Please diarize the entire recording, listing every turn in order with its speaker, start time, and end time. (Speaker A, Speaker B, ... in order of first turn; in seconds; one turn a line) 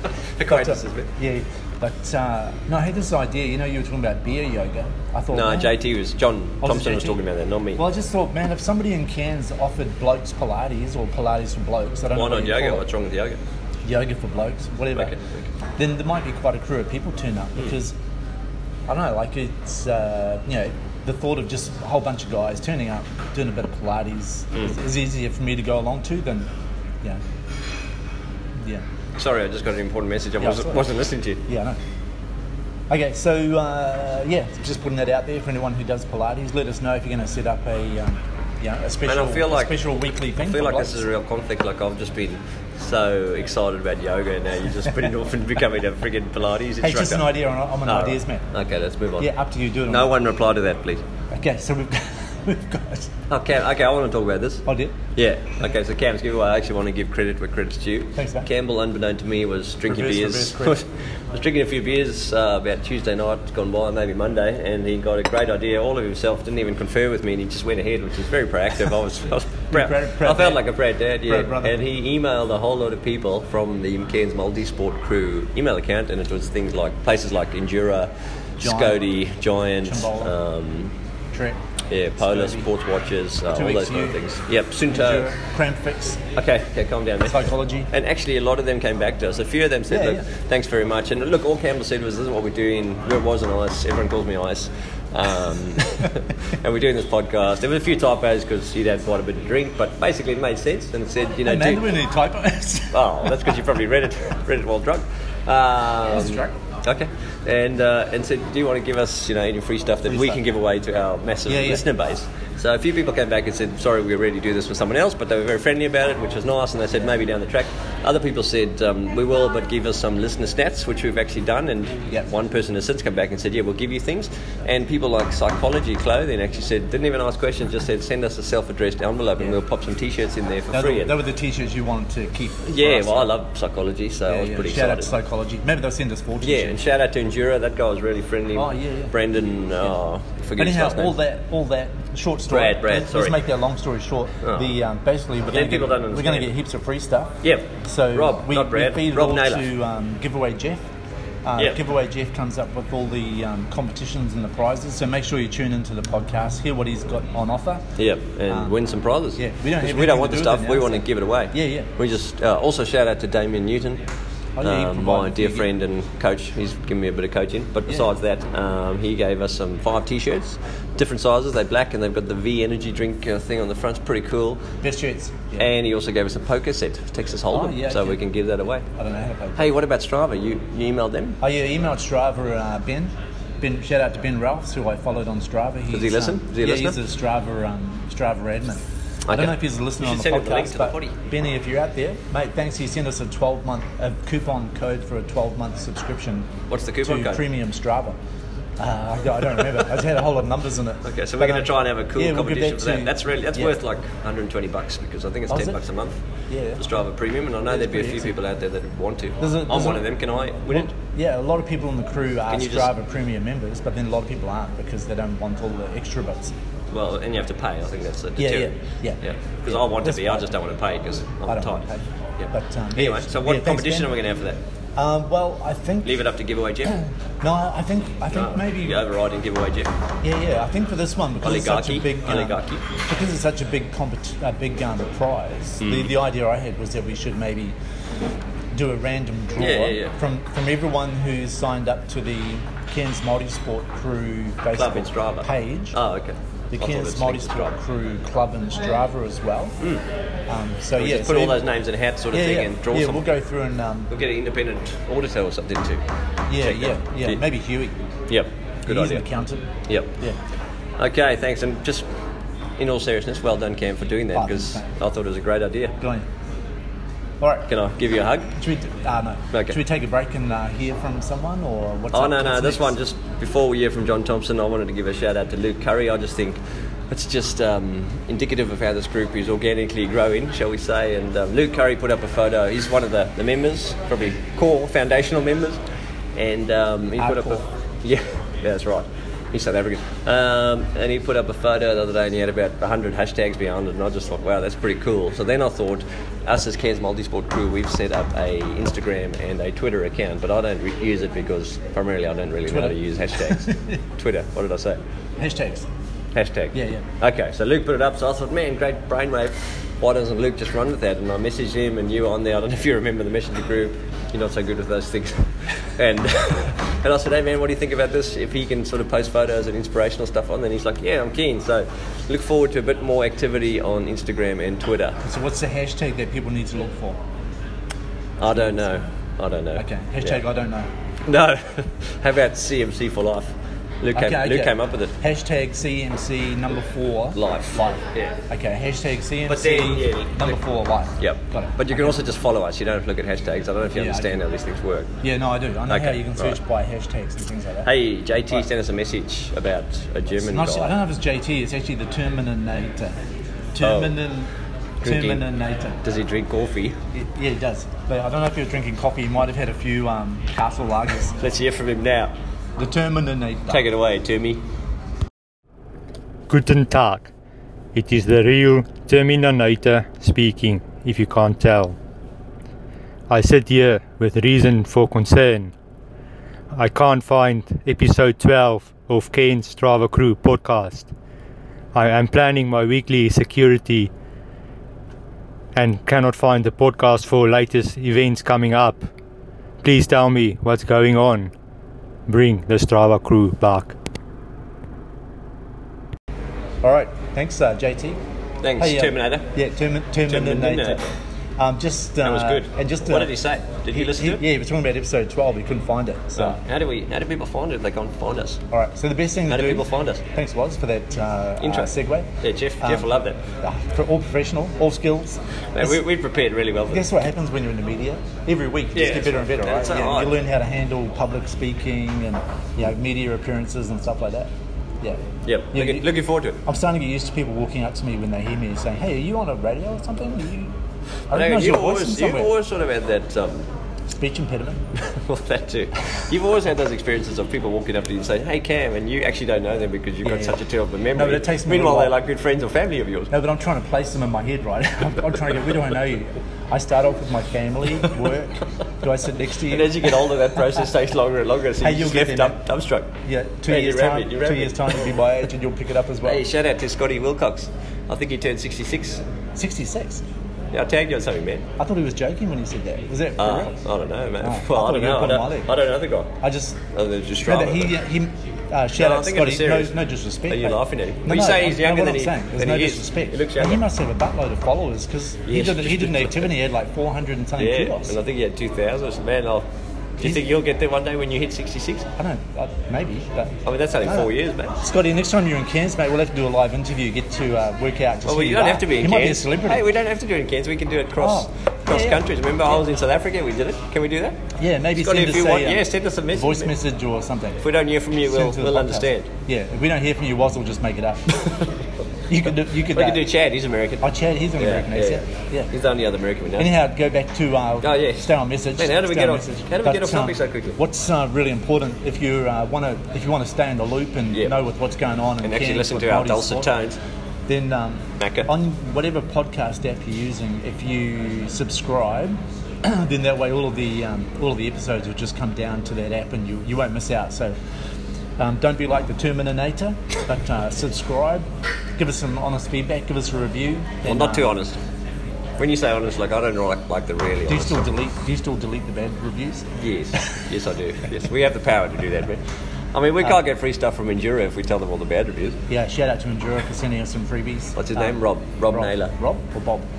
Speaker A: 0.4-1.1
Speaker B: 0.4-5.8
Speaker A: 5.3-7.8
Speaker B: 6.6-7.2
Speaker B: 7.8-12.8
Speaker A: 12.1-13.4
Speaker B: 13.8-15.1
Speaker A: 14.9-15.5
Speaker B: 15.8-17.9
Speaker B: 18.9-26.5
Speaker A: 29.2-31.4
Speaker B: 30.4-30.9
Speaker B: 31.4-31.8
Speaker B: 32.9-41.0
Speaker A: 39.0-39.8
Speaker A: 40.4-47.2
Speaker B: 46.8-48.5
Speaker A: 47.9-49.3
Speaker B: 49.2-50.1
Speaker A: 49.9-51.0
Speaker B: 51.3-53.1
Speaker A: 53.3-80.9
Speaker B: 54.7-54.9
Speaker B: 58.1-58.5
Speaker B: 59.9-60.8
Speaker B: 69.7-70.6
Speaker B: 71.3-71.8
Speaker B: 78.6-79.1
Speaker B: 79.8-80.3
Speaker B: 81.3-81.6
Speaker A: 81.9-85.3
Speaker B: 82.2-82.7
Speaker B: 83.5-84.2
Speaker B: 84.8-86.2
Speaker A: 86.3-101.9
Speaker B: 87.3-87.9
Speaker B: 89.9-90.2
Speaker B: 101.5-103.5
Speaker A: 102.9-131.1
Speaker B: 106.1-106.5
Speaker B: 110.1-110.4
Speaker B: 111.5-111.8
Speaker B: 130.7-133.3
Speaker A: 132.7-135.1
Speaker B: 134.3-136.7
Speaker A: 136.4-141.1
Speaker B: 138.6-139.1
Speaker B: 140.6-147.3
Speaker A: 142.5-143.4
Speaker A: 144.4-144.7
Speaker A: 145.5-146.5
Speaker A: 147.4-149.7
Speaker B: 147.8-150.8
Speaker B: 151.4-157.8
Speaker A: 158.0-164.0
Speaker B: 158.5-158.7
Speaker B: 159.4-161.9
Speaker B: 164.6-165.7
Speaker A: 164.6-174.7
Speaker B: 174.8-175.7
Speaker A: 175.6-178.8
Speaker B: 177.5-178.2
Speaker B: 178.9-179.6
Speaker A: 179.6-181.4
Speaker B: 181.4-198.2
Speaker A: 185.9-187.0
Speaker A: 189.3-191.1
Speaker A: 196.7-197.4
Speaker B: 198.8-203.8
Speaker A: 201.0-206.2
Speaker B: 205.5-205.8
Speaker B: 206.5-206.8
Speaker A: 206.8-210.9
Speaker B: 207.7-208.3
Speaker B: 209.4-210.1
Speaker B: 210.7-216.5
Speaker A: 212.5-212.9
Speaker A: 216.9-221.8
Speaker B: 218.4-220.5
Speaker B: 221.5-224.2
Speaker A: 222.4-224.6
Speaker B: 224.9-226.2
Speaker A: 226.0-227.0
Speaker B: 226.9-229.0
Speaker A: 228.3-229.9
Speaker B: 230.2-237.8
Speaker A: 231.4-232.8
Speaker A: 235.8-236.1
Speaker B: 238.7-246.0
Speaker A: 239.6-240.1
Speaker A: 244.7-247.7
Speaker B: 246.7-249.8
Speaker B: 250.5-251.6
Speaker A: 251.0-253.2
Speaker B: 252.3-254.1
Speaker A: 254.1-256.0
Speaker B: 256.5-257.9
Speaker A: 256.6-257.4
Speaker A: 258.3-259.2
Speaker B: 258.9-259.6
Speaker A: 261.0-262.1
Speaker A: 262.8-265.9
Speaker B: 264.3-264.9
Speaker B: 266.0-266.2
Speaker B: 267.4-267.7
Speaker A: 267.7-268.5
Speaker B: 268.6-272.9
Speaker A: 272.1-285.8
Speaker A: 286.4-305.0
Speaker B: 287.2-287.6
Speaker B: 302.7-304.0
Speaker B: 305.4-305.9
Speaker A: 306.3-325.2
Speaker B: 306.7-307.0
Speaker B: 325.2-327.2
Speaker A: 328.4-330.4
Speaker B: 328.4-328.9
Speaker B: 329.8-330.9
Speaker A: 331.2-335.1
Speaker B: 334.1-342.2
Speaker A: 337.3-338.4
Speaker A: 339.5-340.6
Speaker A: 341.2-345.1
Speaker B: 343.9-344.4
Speaker B: 345.2-347.9
Speaker A: 345.9-346.6
Speaker A: 347.8-350.9
Speaker B: 350.4-353.1
Speaker B: 353.7-354.5
Speaker A: 353.8-354.1
Speaker A: 355.0-355.4
Speaker B: 355.0-356.0
Speaker A: 356.0-357.0
Speaker B: 357.1-361.4
Speaker A: 361.4-362.3
Speaker B: 362.8-363.9
Speaker A: 363.7-364.6
Speaker C: 366.5-367.3
Speaker C: 367.9-372.0
Speaker C: 373.3-375.7
Speaker C: 376.7-381.1
Speaker C: 381.9-384.1
Speaker C: 385.7-389.1
Speaker C: 389.8-391.5
Speaker C: 392.3-393.9
Speaker B: 396.8-398.2
Speaker A: 398.6-399.5
Speaker B: 398.8-401.1
Speaker A: 400.2-401.1
Speaker B: 401.6-403.4
Speaker A: 402.2-404.4
Speaker B: 403.9-406.6
Speaker A: 406.4-408.6
Speaker B: 408.7-412.3
Speaker A: 409.5-410.2
Speaker A: 411.6-411.9
Speaker A: 412.4-413.4
Speaker B: 412.8-413.1
Speaker B: 413.6-416.0
Speaker A: 415.7-417.1
Speaker B: 416.9-424.5
Speaker A: 418.9-420.4
Speaker A: 425.4-426.6
Speaker B: 425.7-426.1
Speaker B: 426.6-430.7
Speaker B: 431.3-432.5
Speaker A: 431.3-433.7
Speaker B: 434.1-434.8
Speaker A: 434.9-443.3
Speaker B: 440.2-440.6
Speaker B: 441.1-442.1
Speaker B: 443.3-450.8
Speaker A: 449.7-453.1
Speaker B: 451.8-452.6
Speaker B: 453.2-456.4
Speaker A: 453.7-455.0
Speaker A: 456.2-459.2
Speaker B: 459.6-460.2
Speaker A: 460.7-461.6
Speaker B: 461.8-463.7
Speaker A: 463.4-466.3
Speaker B: 464.4-465.7
Speaker B: 466.4-466.8
Speaker A: 466.9-467.9
Speaker B: 467.4-478.1
Speaker A: 469.0-469.9
Speaker A: 470.5-473.8
Speaker A: 475.4-476.5
Speaker A: 477.6-479.7
Speaker A: 480.2-482.1
Speaker B: 482.2-484.3
Speaker A: 483.6-484.8
Speaker B: 484.8-489.8
Speaker A: 488.3-494.4
Speaker B: 491.2-492.8
Speaker B: 494.6-497.6
Speaker A: 494.9-496.7
Speaker A: 497.6-499.3
Speaker B: 498.2-501.4
Speaker B: 502.3-503.3
Speaker A: 502.9-506.7
Speaker B: 504.0-505.7
Speaker B: 506.6-516.7
Speaker A: 507.8-510.8
Speaker A: 515.4-517.0
Speaker B: 517.5-527.6
Speaker A: 518.2-518.5
Speaker B: 528.4-534.5
Speaker A: 534.0-534.8
Speaker A: 535.6-537.8
Speaker B: 537.5-539.7
Speaker A: 539.8-542.4
Speaker A: 542.9-545.6
Speaker B: 545.7-548.2
Speaker A: 547.8-549.1
Speaker B: 548.7-549.9